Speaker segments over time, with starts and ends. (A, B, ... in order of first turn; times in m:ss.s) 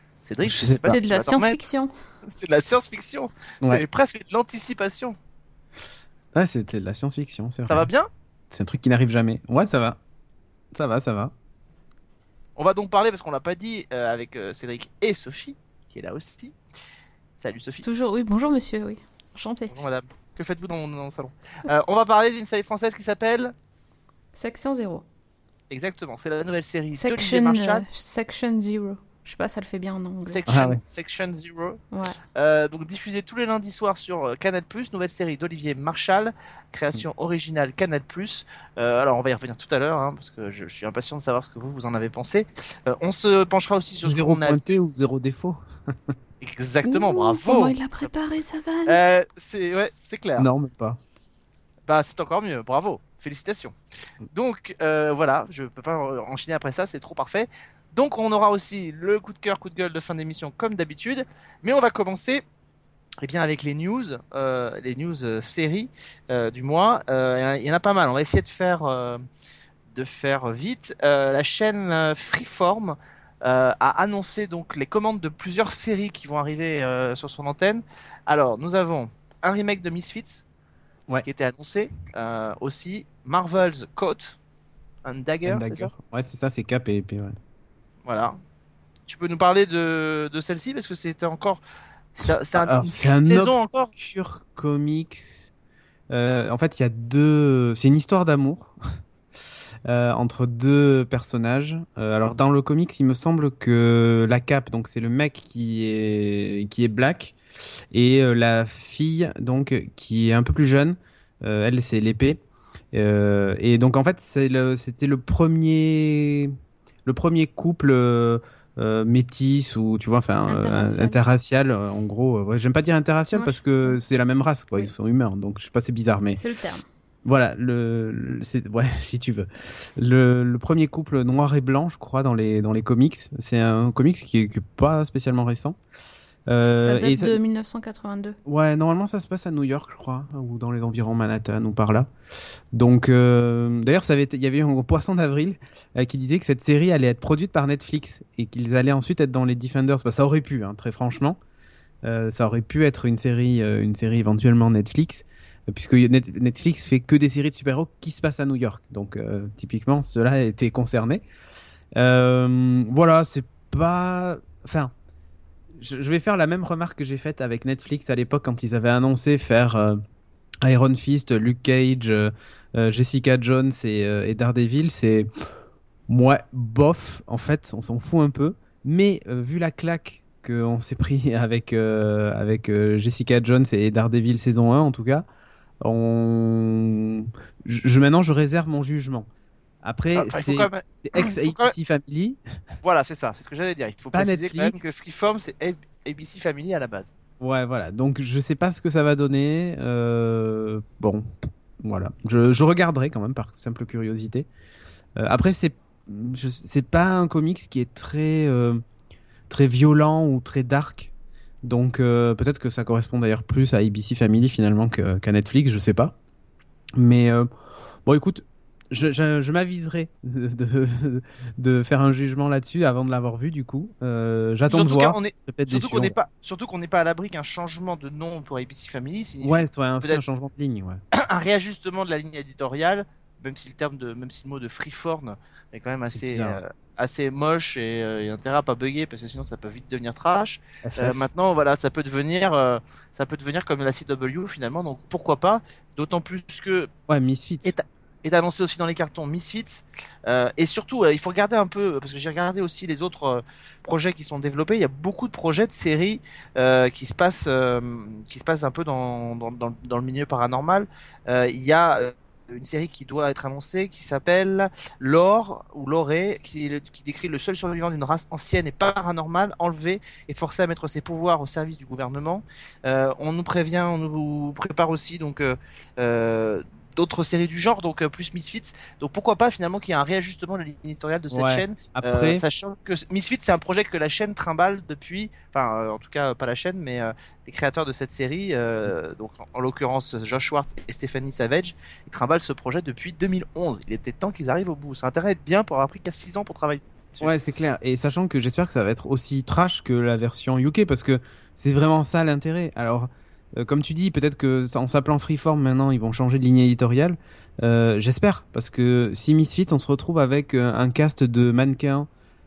0:00.2-0:01.6 A
0:00.4-0:01.0 B
0:00.9-0:01.9 C
0:02.3-0:05.2 A
0:06.3-0:07.9 B
0:07.6-0:08.1 A
0:08.5-0:10.0 B
0:10.7-0:11.3 B
0:12.6-0:16.6 A
0:17.4-0:17.8 A
0:17.8-0:19.8 C
0:19.7-0:23.5 A
0:24.3-0:25.0 C
0:25.7-0:27.8 A
0:27.0-0:30.5 C
0:30.2-0:31.8 A
0:30.5-0:30.8 B
0:31.9-0:32.2 C
0:32.3-0:44.6 A
0:44.0-0:46.1 B
0:46.4-0:48.1 A
0:46.8-0:49.0 C
0:48.8-0:50.5 A
0:50.4-0:51.0 B
0:51.9-0:53.8 A
0:54.3-1:02.4 A
1:03.2-1:09.2 A
1:09.9-1:20.4 A
1:21.2-1:24.4 A
1:25.0-1:25.9 A
1:25.4-1:27.4 B
1:28.0-1:28.4 A
1:29.1-1:31.6 A
1:32.2-1:33.9 A
1:32.5-1:35.5 B
1:36.1-1:38.8 B
1:39.8-1:47.3 B
1:47.9-1:52.4 B
1:52.9-1:56.5 B
1:57.0-2:06.4 B
2:00.5-2:01.2 C
2:03.3-2:04.0 C
2:06.4-2:06.8 C
2:07.2-2:15.8 B
2:16.5-2:17.4 B
2:16.8-2:18.4 C
2:18.4-2:22.1 B
2:22.7-2:31.4 B
2:32.0-2:41.2 B
2:42.0-2:44.9 B
2:45.8-2:50.0 B
2:50.6-2:55.3 B
2:56.1-3:05.2 B
3:05.8-3:09.3 B
3:09.8-3:12.4 B
3:10.1-3:11.7 A
3:12.8-3:17.1 A
3:14.1-3:14.8 B
3:17.4-3:21.3 B
3:21.8-3:24.5 B
3:25.2-3:28.8 B
3:29.5-3:31.1 B
3:31.6-3:36.1 B
3:37.0-3:37.5 B
3:38.0-3:46.1 B
3:44.7-3:50.2 A
3:49.4-3:51.0 B
3:51.1-4:06.9 A
3:56.1-3:56.6 B
4:00.8-4:01.2 B
4:07.1-4:07.7 B
4:07.6-4:57.3 A
4:41.3-4:42.4 B
4:57.2-5:12.1 B